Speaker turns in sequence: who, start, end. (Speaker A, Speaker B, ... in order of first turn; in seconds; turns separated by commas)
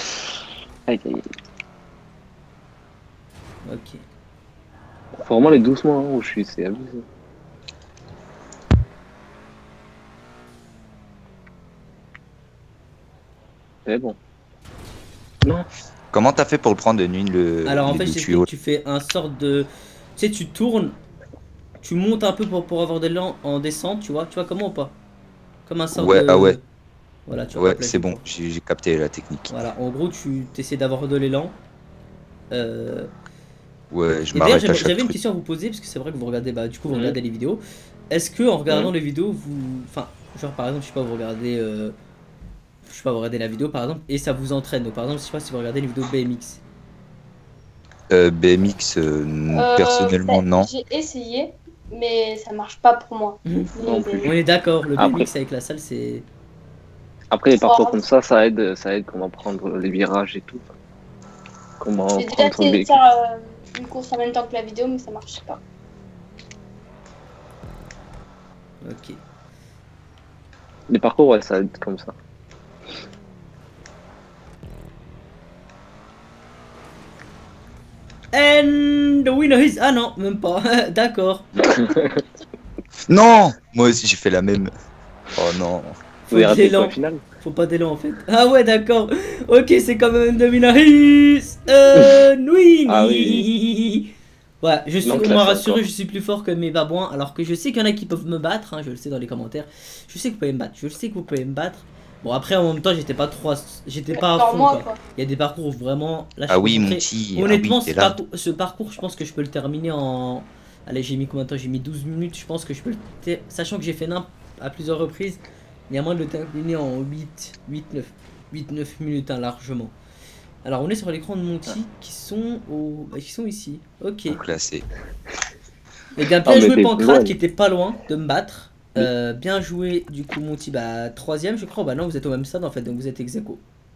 Speaker A: 0.9-1.2, Speaker B: 3.6-4.0, Speaker A: 5.2-7.0, Speaker A: 13.8-14.2, Speaker C: 16.1-18.5, Speaker B: 17.6-21.0, Speaker B: 21.8-25.0, Speaker B: 25.6-26.6, Speaker C: 25.9-26.6, Speaker B: 27.3-28.2, Speaker C: 27.5-29.5, Speaker B: 29.5-31.6, Speaker B: 32.5-33.1, Speaker C: 33.9-35.1, Speaker B: 34.3-42.0, Speaker A: 36.9-37.1, Speaker B: 42.9-46.6, Speaker C: 48.1-50.7, Speaker D: 49.5-54.3, Speaker A: 53.8-54.3, Speaker B: 54.2-56.3, Speaker A: 55.0-55.3, Speaker A: 57.3-60.7, Speaker D: 57.5-58.0, Speaker A: 61.8-63.0, Speaker D: 62.1-65.6, Speaker B: 68.8-69.2, Speaker A: 70.9-72.1, Speaker B: 78.3-81.5, Speaker A: 81.7-82.2, Speaker C: 83.1-84.7, Speaker C: 85.3-86.0, Speaker B: 86.3-94.1, Speaker A: 86.3-87.2, Speaker A: 92.8-93.5, Speaker B: 94.6-120.0, Speaker A: 95.0-95.8, Speaker D: 104.1-105.0, Speaker C: 106.5-108.2, Speaker B: 120.6-124.4, Speaker C: 124.3-124.8, Speaker B: 126.2-133.6, Speaker A: 126.4-127.4